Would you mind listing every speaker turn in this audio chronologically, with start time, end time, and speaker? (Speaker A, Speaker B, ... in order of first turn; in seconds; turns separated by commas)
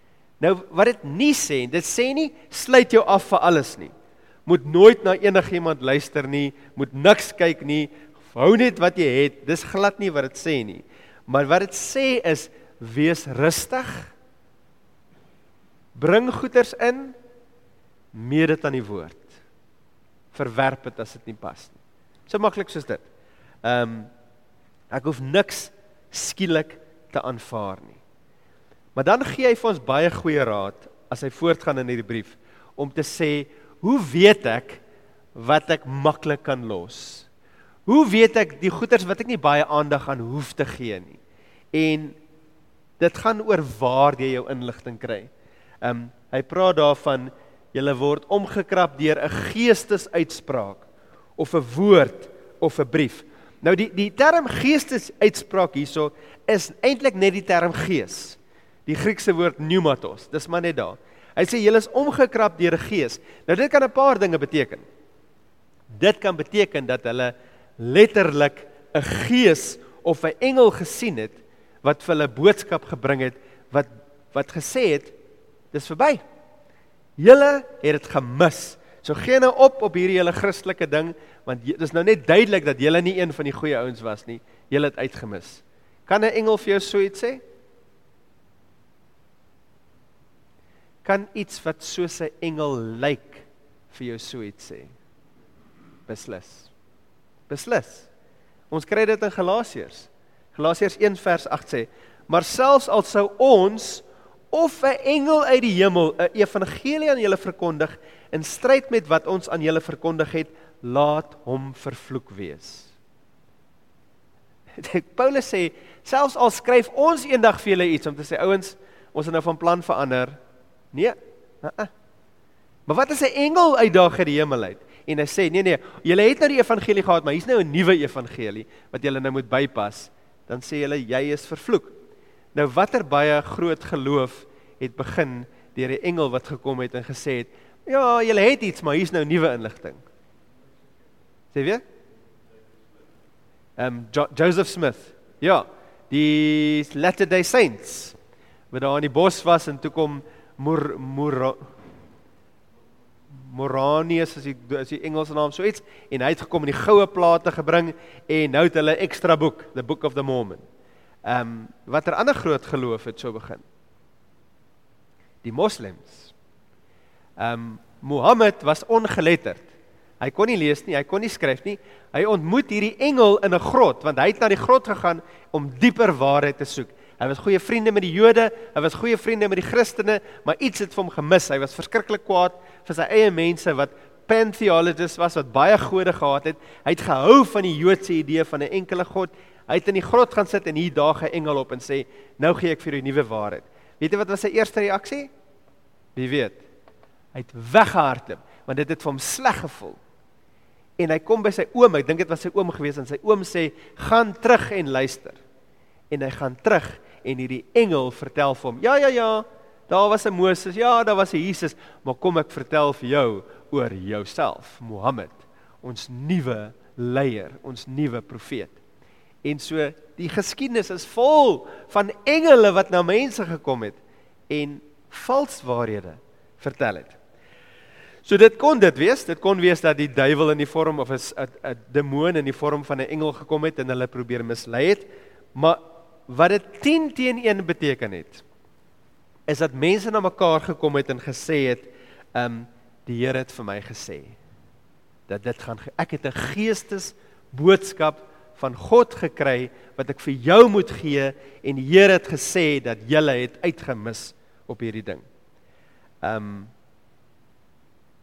Speaker A: 0.4-3.9, Speaker A: 4.5-14.1, Speaker A: 15.9-17.2, Speaker A: 18.1-19.3, Speaker A: 20.3-23.0, Speaker A: 23.6-24.1, Speaker A: 24.9-28.0, Speaker A: 28.9-34.8, Speaker A: 35.4-37.3, Speaker A: 37.9-41.2, Speaker A: 41.7-42.2, Speaker A: 43.0-45.3, Speaker A: 45.8-50.8, Speaker A: 51.4-64.8, Speaker A: 66.0-75.1, Speaker A: 75.7-76.2, Speaker A: 77.2-87.4, Speaker A: 91.0-94.9, Speaker A: 96.1-96.7, Speaker A: 97.5-98.1, Speaker A: 98.7-112.9, Speaker A: 114.8-120.4, Speaker A: 120.9-121.9, Speaker A: 122.9-131.9, Speaker A: 132.5-140.0, Speaker A: 141.5-141.8, Speaker A: 143.8-148.2, Speaker A: 148.7-151.6, Speaker A: 153.3-160.6, Speaker A: 161.3-163.7, Speaker A: 165.4-166.3, Speaker A: 167.4-169.7, Speaker A: 170.2-195.3, Speaker A: 196.2-196.6, Speaker A: 197.3-200.0, Speaker A: 201.0-205.4, Speaker A: 206.1-218.8, Speaker A: 219.4-227.2, Speaker A: 228.2-238.4, Speaker A: 239.5-244.4, Speaker A: 245.3-255.2, Speaker A: 256.2-256.7